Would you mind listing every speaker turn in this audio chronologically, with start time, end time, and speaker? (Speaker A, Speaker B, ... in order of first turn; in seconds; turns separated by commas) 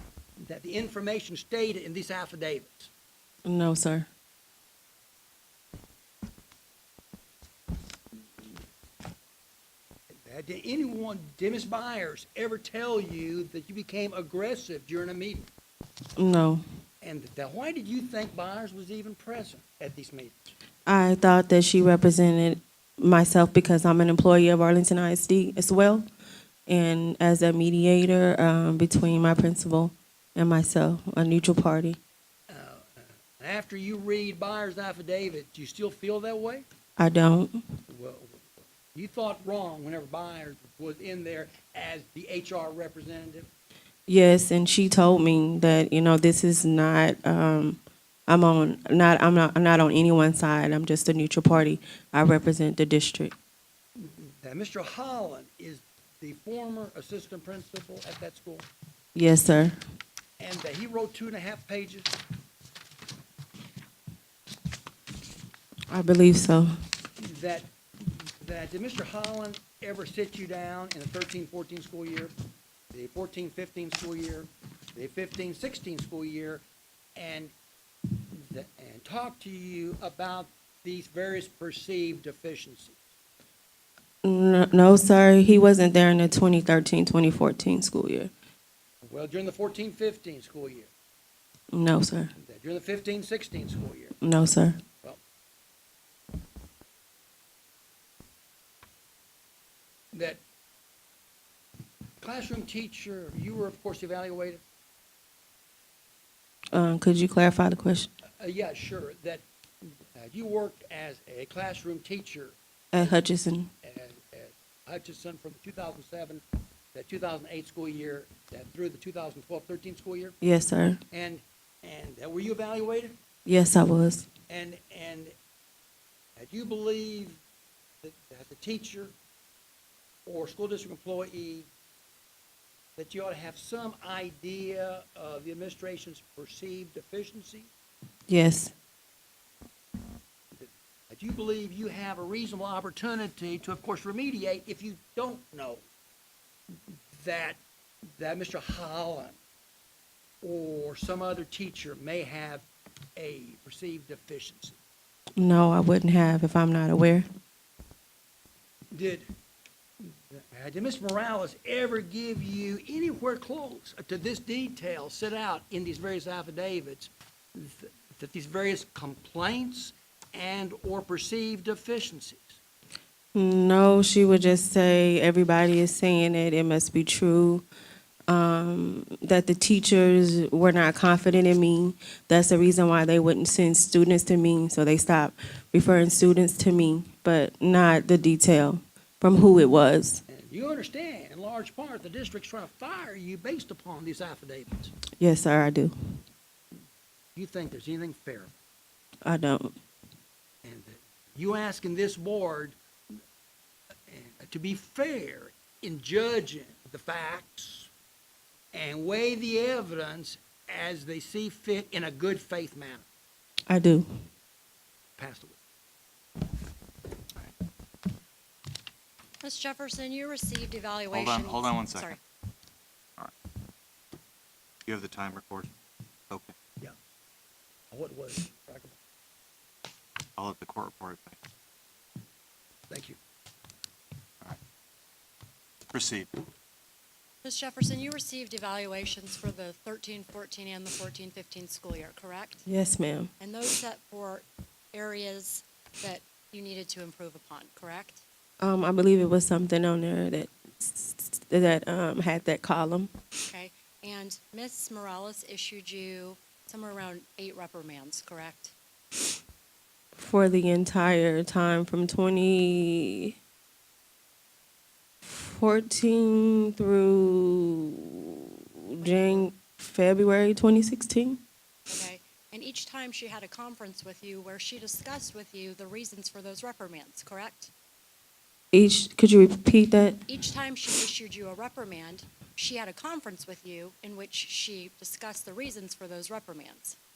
Speaker A: 0.4-2.9, Speaker B: 3.4-4.1, Speaker A: 10.1-15.5, Speaker B: 16.2-16.6, Speaker A: 17.0-20.5, Speaker B: 20.9-26.1, Speaker B: 26.7-32.0, Speaker A: 32.5-36.6, Speaker B: 37.0-37.6, Speaker A: 37.9-43.5, Speaker B: 44.1-53.3, Speaker A: 54.0-58.7, Speaker B: 59.1-59.8, Speaker A: 60.4-62.1, Speaker B: 65.9-66.7, Speaker A: 67.2-72.3, Speaker A: 72.9-76.6, Speaker A: 77.2-77.5, Speaker A: 78.2-83.0, Speaker B: 84.2-88.3, Speaker A: 89.0-90.9, Speaker B: 91.7-92.3, Speaker A: 92.3-94.2, Speaker B: 94.2-94.8, Speaker A: 100.1-100.4, Speaker A: 102.2-104.6, Speaker B: 106.7-108.1, Speaker A: 108.4-113.2, Speaker B: 112.9-113.7, Speaker A: 113.8-116.4, Speaker A: 116.9-120.3, Speaker B: 120.4-121.0, Speaker A: 121.1-123.2, Speaker B: 123.5-124.3, Speaker A: 124.5-125.3, Speaker A: 126.4-127.4, Speaker A: 128.0-129.1, Speaker A: 130.2-131.7, Speaker A: 133.0-137.7, Speaker B: 138.3-138.7, Speaker A: 140.5-145.8, Speaker A: 146.9-147.6, Speaker A: 148.2-149.4, Speaker A: 150.4-154.8, Speaker B: 155.4-157.3, Speaker A: 158.9-159.3, Speaker A: 160.0-172.6, Speaker B: 173.3-177.7, Speaker B: 178.3-190.2, Speaker A: 190.3-194.9, Speaker B: 195.2-195.9, Speaker A: 197.3-198.5, Speaker B: 199.2-199.8, Speaker A: 200.6-203.2, Speaker A: 204.1-207.9, Speaker A: 208.7-213.1, Speaker B: 213.7-214.1, Speaker A: 215.2-215.6, Speaker C: 219.4-222.2, Speaker D: 221.1-222.1, Speaker D: 224.8-225.7, Speaker A: 227.9-229.0, Speaker D: 230.4-231.4, Speaker A: 232.9-233.2, Speaker D: 235.9-236.3, Speaker C: 237.4-242.7, Speaker B: 242.7-243.3, Speaker C: 243.4-248.2, Speaker B: 248.6-253.1, Speaker C: 253.4-258.7, Speaker B: 260.1-263.4, Speaker B: 265.2-271.4, Speaker C: 269.0-269.5, Speaker C: 271.9-277.7, Speaker B: 278.7-280.2, Speaker C: 280.3-287.0